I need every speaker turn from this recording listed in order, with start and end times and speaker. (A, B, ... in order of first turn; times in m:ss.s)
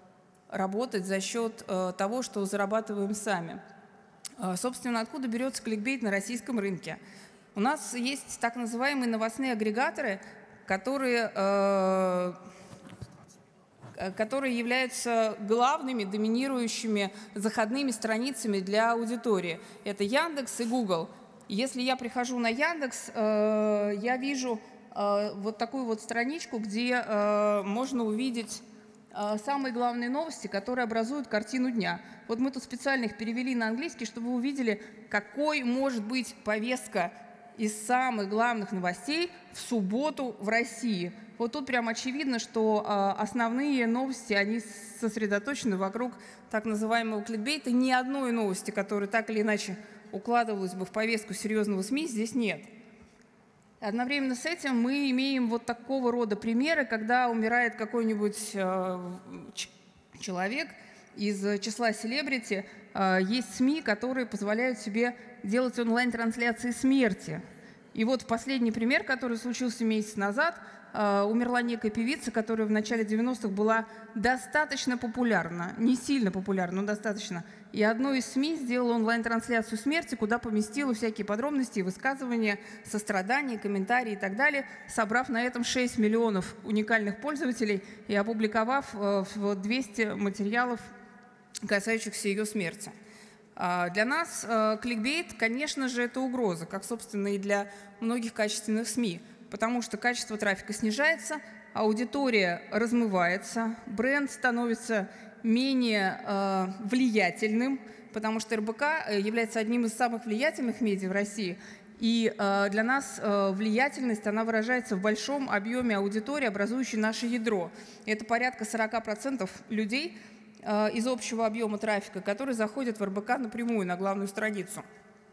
0:00.5-0:03.6 A
0:04.4-0:07.0 A
0:07.5-0:12.4 A
0:14.0-0:52.7 A
0:53.8-1:07.4 A
1:07.9-1:30.8 A
1:31.6-1:32.9 A
1:33.6-2:04.8 A